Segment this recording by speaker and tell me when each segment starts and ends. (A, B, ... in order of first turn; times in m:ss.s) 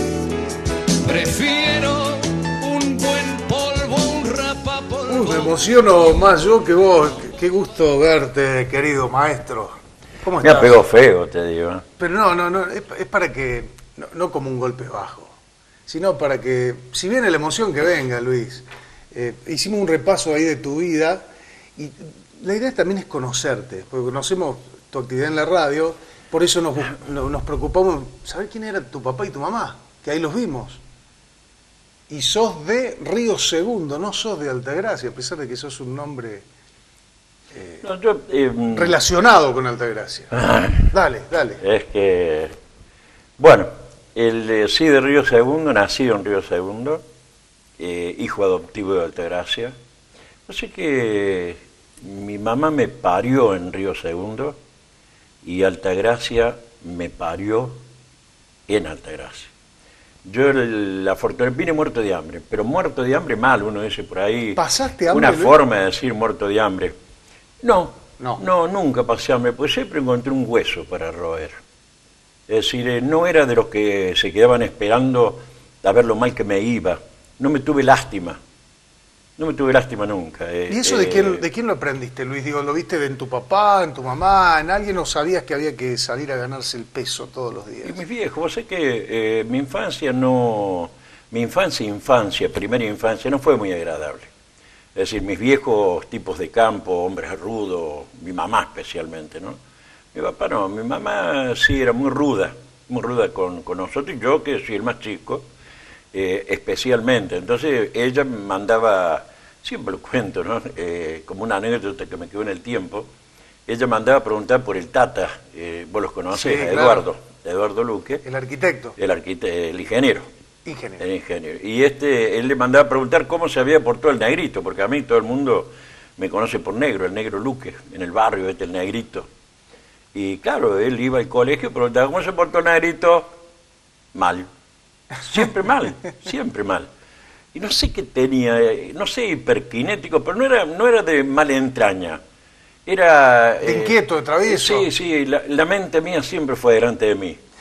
0:01.0-0:05.5 A
0:05.1-0:10.8 B
0:10.4-0:11.8 C
0:12.0-0:15.3 B
0:15.9-0:30.8 B
0:32.1-0:36.4 B
0:37.5-0:37.8 B
0:37.8-0:39.0 C
0:38.7-0:40.3 B
0:40.3-0:40.9 C
0:40.9-0:41.6 B
0:41.6-0:42.5 C
0:43.4-0:47.0 C
0:47.8-0:49.8 C
0:50.5-0:54.6 C
0:55.4-0:57.8 C
0:58.7-0:59.5 C
1:00.2-1:06.9 C
1:04.6-1:05.6 B
1:07.6-1:11.6 C
1:12.5-1:18.4 C
1:19.4-1:21.4 C
1:20.7-1:28.0 B
1:27.8-1:34.3 C
1:34.9-1:39.6 C
1:40.1-1:45.5 C
1:46.1-1:53.1 C
1:53.7-1:58.2 C
1:56.3-1:57.0 B
1:58.2-1:58.9 B
1:59.0-2:00.3 C
2:00.6-2:01.0 B
2:01.0-2:09.3 C
2:10.1-2:13.3 C
2:14.1-2:14.5 C
2:15.2-2:16.9 C
2:17.5-2:22.2 C
2:22.8-2:27.4 C
2:23.6-2:24.9 B